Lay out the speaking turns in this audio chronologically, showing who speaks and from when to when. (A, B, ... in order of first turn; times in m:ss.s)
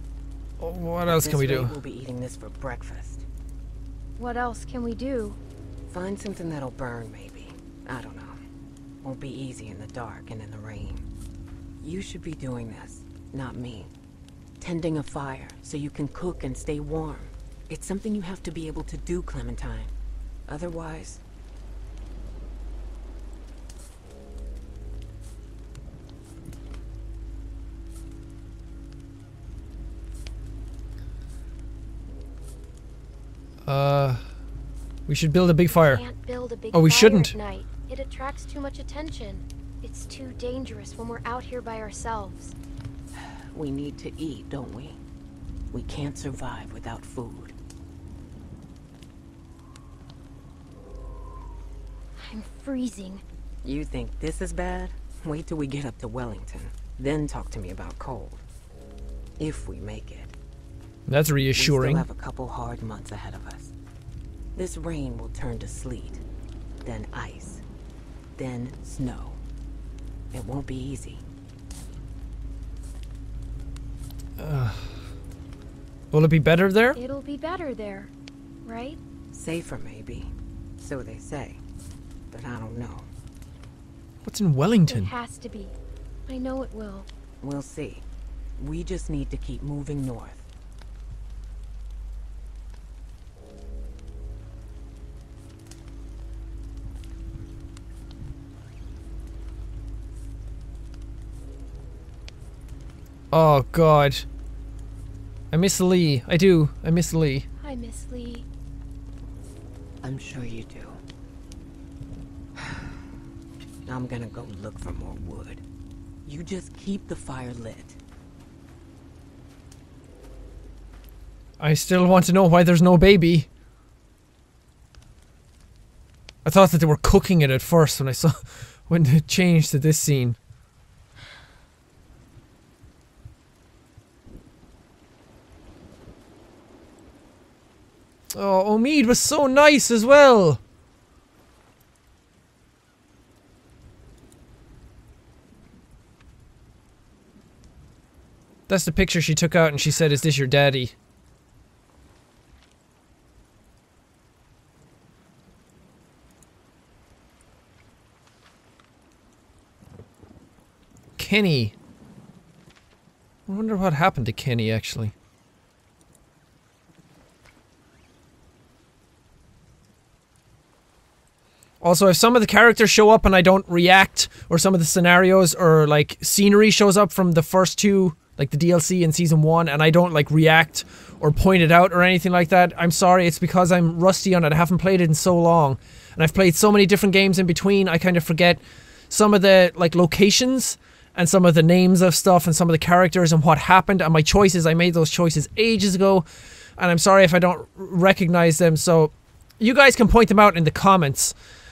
0:00.6-0:01.8 A
0:01.0-0:03.2 B
0:04.2-0:05.4 C
0:05.9-0:08.4 B
0:09.0-0:11.1 B
0:11.8-0:13.9 B
0:14.6-0:19.9 B
0:20.5-0:21.2 B
0:33.6-0:34.2 A
0:35.1-0:36.0 A
0:35.7-0:42.6 C
0:36.7-0:37.4 A
0:43.1-0:45.0 B
0:45.7-0:47.5 B
0:52.2-0:53.2 C
0:53.6-0:58.4 B
0:59.4-1:00.3 B
1:01.1-1:02.0 A
1:01.5-1:03.7 B
1:04.6-1:06.2 B
1:06.8-1:07.6 B
1:08.4-1:09.4 B
1:10.3-1:11.2 B
1:14.4-1:14.9 A
1:16.1-1:17.0 A
1:16.9-1:18.1 C
1:18.6-1:19.0 C
1:19.3-1:21.6 B
1:22.3-1:23.1 B
1:24.2-1:25.1 A
1:24.9-1:25.7 C
1:26.3-1:27.1 C
1:27.4-1:28.0 B
1:28.6-1:30.5 B
1:43.3-1:44.2 A
1:45.5-1:47.4 A
1:47.6-1:48.5 C
1:50.0-1:51.0 B
1:52.6-1:52.8 B
1:53.8-1:55.6 B
1:56.2-1:58.0 B
2:01.6-2:03.5 A
2:06.4-2:10.4 A
2:18.3-2:20.6 A
2:28.7-2:30.9 A
2:41.2-2:41.7 A
2:43.5-2:45.1 A
2:51.8-3:16.2 A
3:16.8-3:21.3 A